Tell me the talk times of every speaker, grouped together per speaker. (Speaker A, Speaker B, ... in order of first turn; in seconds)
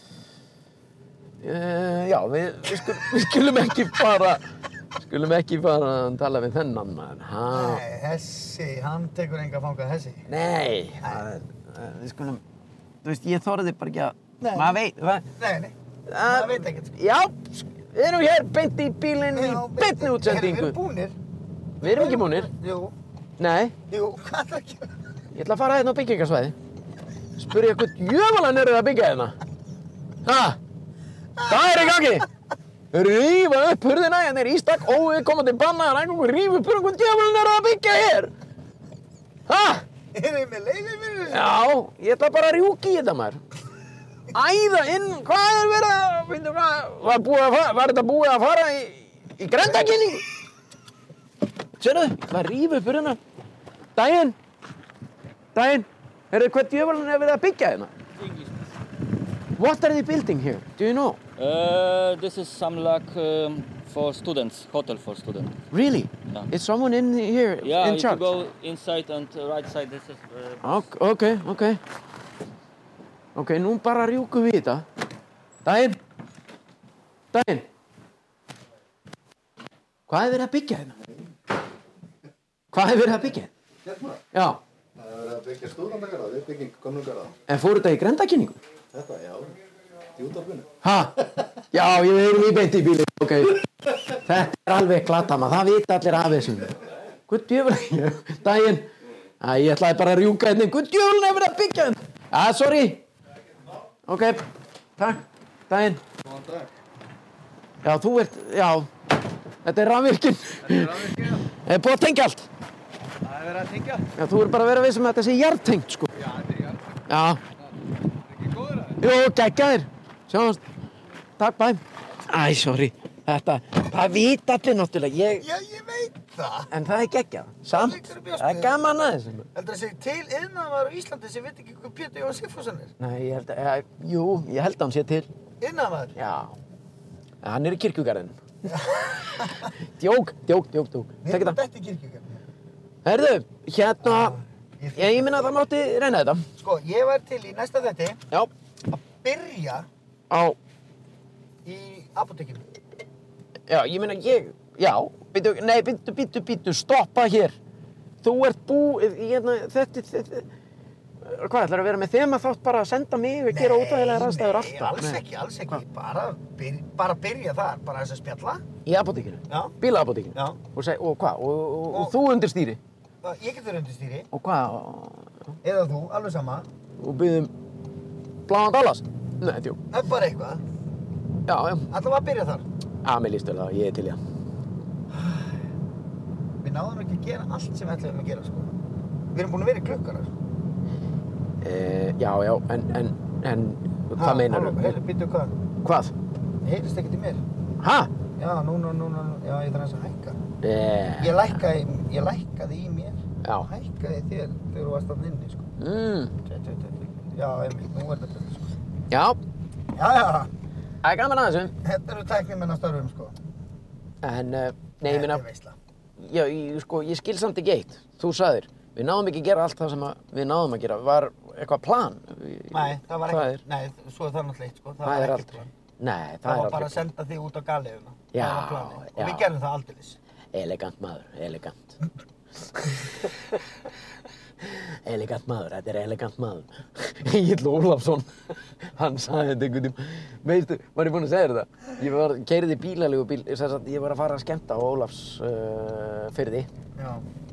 Speaker A: 1.4-4.4, 5.0-7.8, 10.3-12.4, 13.0-15.2, 16.1-20.8, 21.8-22.5, 23.4-23.7, 25.3-26.6, 27.4-29.4, 30.2-30.6, 31.5-32.2, 32.9-38.3, 39.5-39.9, 41.3-43.4, 44.3-50.2, 51.8-53.2, 54.0-54.4, 55.5-57.9, 59.6-61.2, 65.7-68.4, 70.6-71.8, 73.3-74.8, 75.6-76.0, 77.3-77.7, 80.1-81.0, 82.7-83.5, 84.3-84.6, 87.5-88.6, 90.8-91.2, 91.7-96.8, 97.3-98.9, 99.4-103.0, 104.1-104.4, 105.0-106.0, 107.8-108.9, 109.6-112.5, 114.2-116.1, 117.1-117.4, 119.0-120.6, 121.4-125.4, 126.7-129.5, 133.0-135.3, 136.2-136.6, 137.4-138.4, 139.3-141.6, 143.0-144.3, 144.9-146.4, 150.3-150.6, 153.7-157.6, 158.2-160.5, 161.2-165.8, 168.8-172.8, 174.3-175.4, 177.0-177.5, 178.5-179.8, 181.5-181.9, 183.0-184.2, 191.6-195.0, 195.8-196.1, 197.8-198.1, 200.6-201.6, 203.4-203.7, 205.8-206.3, 209.1-209.4, 211.0-211.7, 214.2-215.4, 216.2-223.6, 225.0-227.1, 228.3-229.5, 230.5-232.0, 234.6-246.7
Speaker B: 7.5-10.3, 14.4-14.8, 15.4-16.9, 19.3-21.1, 21.8-22.9, 23.9-25.0, 31.4-32.3, 40.1-41.6, 125.4-126.7, 127.7-128.8, 129.5-132.9, 135.6-136.2, 138.6-139.7, 141.2-142.5, 144.0-145.6, 146.6-148.2, 148.9-149.9, 151.6-152.6, 163.5-168.6, 169.5-169.8, 171.9-172.2, 173.2-174.3, 175.6-176.7, 179.9-180.6, 181.9-182.6, 185.1-185.6, 186.6-188.7, 189.3-190.3, 194.1-195.5, 196.6-197.4, 198.3-200.4, 201.2-205.8, 206.4-208.7, 209.9-210.5, 211.8-213.4, 215.0-215.8, 222.7-225.7, 226.4-230.2, 246.9-247.2
Speaker C: 61.4-65.6, 67.6-70.9
Speaker D: 85.1-87.3, 88.9-89.5, 90.2-90.7
Speaker E: 106.2-106.7, 110.6-111.4, 113.2-114.1, 116.1-116.9, 118.2-119.0